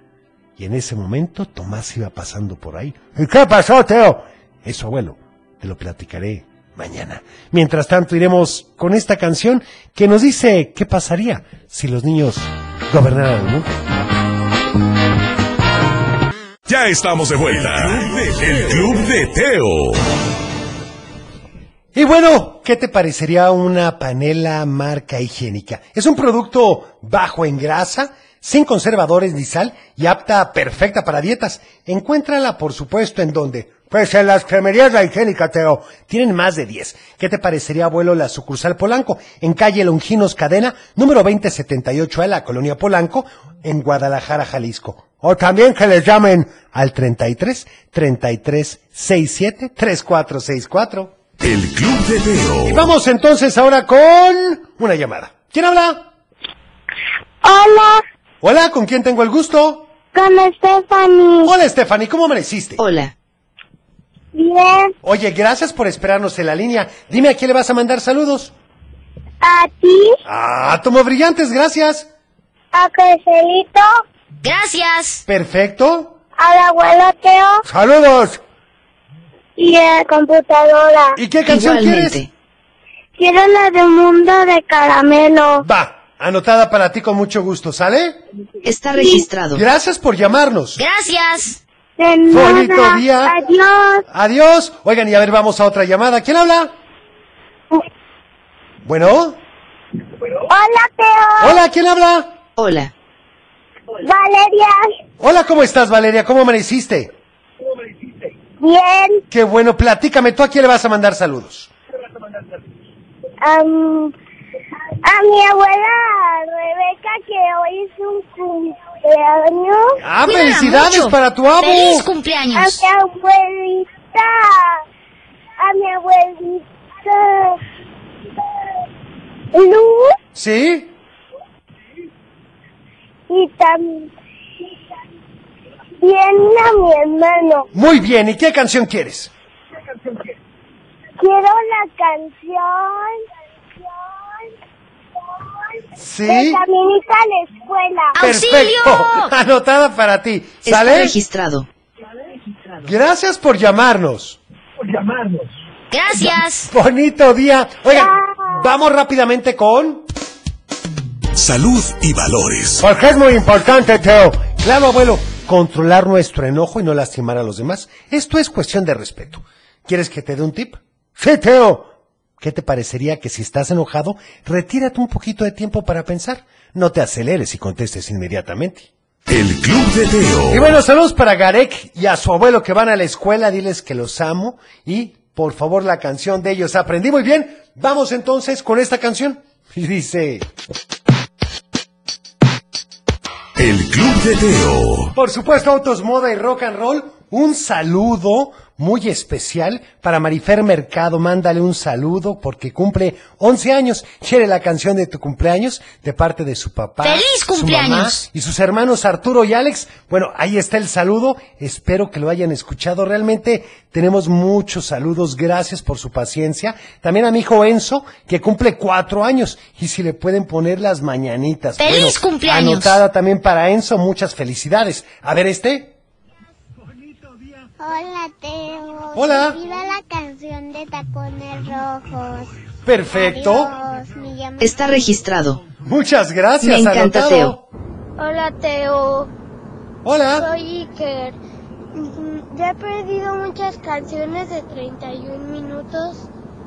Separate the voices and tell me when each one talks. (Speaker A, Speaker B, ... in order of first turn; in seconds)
Speaker A: 0.6-13.8, 21.9-51.1, 52.7-56.1, 58.4-59.9, 61.4-62.8, 65.0-68.5, 70.2-72.1, 75.3-76.1, 77.6-78.4, 81.2-82.2, 85.6-88.2, 89.5-90.8, 92.3-93.3, 94.1-96.7, 98.8-99.4, 101.4-102.3, 105.2-107.1, 109.3-111.7, 120.0-122.1, 130.3-130.9, 137.7-139.3, 146.0-146.6, 148.2-151.2, 152.8-154.4, 156.7-160.0, 162.8-178.9, 180.5-190.4, 195.1-225.9, 229.1-229.6, 232.8-233.7, 235.8-237.6, 240.0-240.5
Speaker B: 16.7-20.0, 51.4-52.9, 161.3-162.8, 179.3-180.8, 193.6-195.1
Speaker C: 57.4-58.0, 60.1-61.5, 64.3-64.9, 69.4-70.2, 72.7-73.8, 76.4-77.6, 79.6-81.2, 83.2-85.6, 89.0-89.2, 92.0-94.0, 100.5-101.6, 104.0-104.9, 108.6-109.2, 113.4-114.1, 115.0-120.0, 122.5-124.8, 125.6-127.6, 129.5-130.2, 133.3-134.1, 136.0-137.7, 141.2-143.2, 146.3-148.1
Speaker D: 62.8-63.1, 81.5-82.3, 88.6-89.6, 102.5-102.9, 150.6-151.7, 234.6-235.6, 236.6-237.6
Speaker E: 74.4-75.2, 90.8-91.6, 120.2-122.8, 148.1-149.3, 155.9-156.7, 207.0-208.2, 221.8-223.0
Speaker F: 227.8-232.5, 233.1-234.6
Speaker G: 238.2-239.3, 240.4-241.3, 241.9-246.3